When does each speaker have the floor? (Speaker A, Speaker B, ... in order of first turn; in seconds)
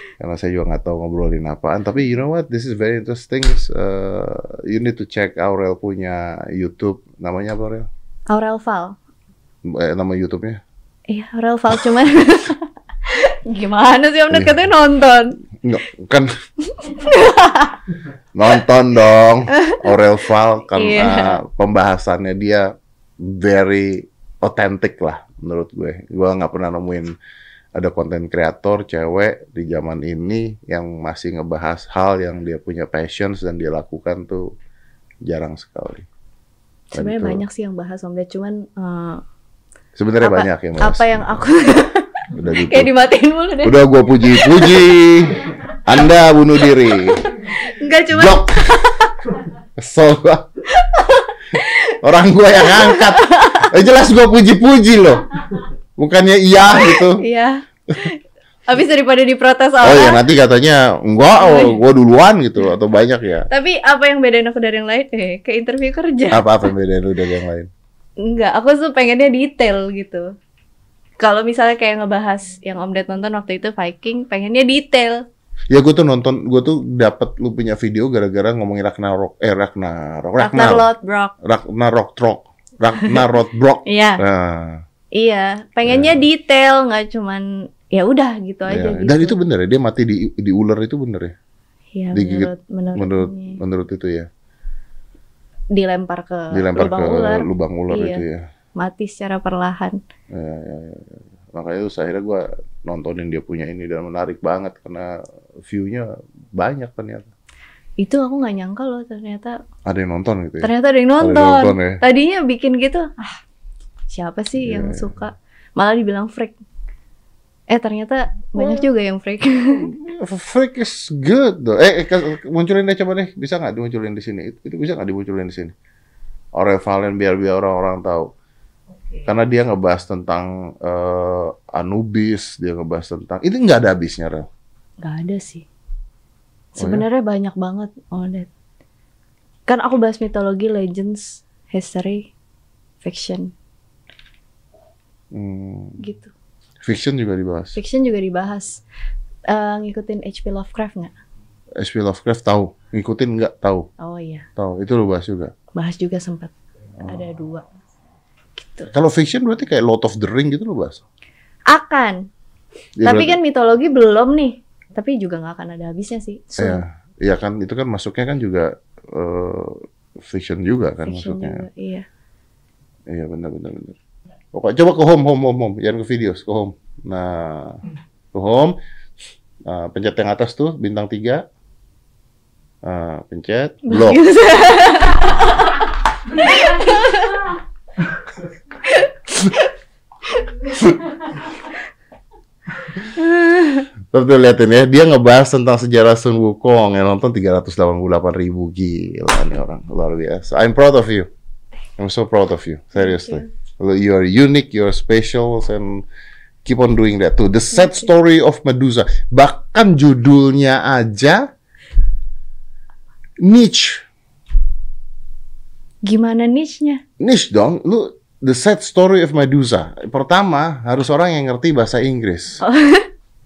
Speaker A: 0.2-7.9, 9.7-10.6, 15.6-16.3, 18.3-22.7, 23.2-27.1, 27.8-34.5, 35.3-36.1, 37.0-37.4, 40.0-41.4, 42.3-42.9, 43.6-47.3, 48.1-48.8, 49.8-50.5, 52.0-57.2, 59.8-63.5, 66.3-67.7, 75.7-80.9, 81.4-84.8, 85.9-86.2, 88.7-91.3, 92.1-94.3, 96.5-98.5, 100.3-107.3, 109.9-112.0, 114.6-115.1, 118.6-118.8, 119.8-125.7, 126.6-128.3, 129.2-134.5, 136.8-137.1, 145.3-146.0, 146.8-147.8, 151.8-153.9, 154.6-155.5, 157.0-157.3, 158.9-161.0, 163.0-163.4, 166.6-171.7, 173.1-174.0, 174.5-177.8, 178.3-178.8, 179.7-181.4, 182.8-184.2, 194.1-201.3, 202.0-206.0, 206.7-211.5, 213.4-214.0, 217.2-222.6
Speaker B: 8.3-9.0, 11.1-15.4, 16.7-17.8, 19.6-19.9, 20.7-21.4, 36.9-39.2, 40.2-44.8, 46.6-49.3, 50.7-52.0, 52.6-53.7, 56.9-60.2, 61.4-61.8, 63.5-66.7, 68.2-70.3, 71.2-75.2, 80.4-81.3, 83.9-84.2, 85.1-89.3, 91.9-93.6, 95.7-98.2, 98.8-100.0, 108.0-109.6, 110.6-113.4, 114.1-116.6, 117.7-119.9, 135.0-135.7, 136.8-138.5, 139.7-142.3, 143.0-143.5, 146.0-146.3, 147.8-148.8, 149.5-151.1, 154.0-154.5, 155.7-157.7, 158.6-158.9, 161.7-162.2, 163.0-166.8, 171.0-172.1, 183.9-187.5, 188.8-189.7, 190.3-191.3, 193.0-193.9, 203.0-203.5, 216.1-217.0, 222.6-223.1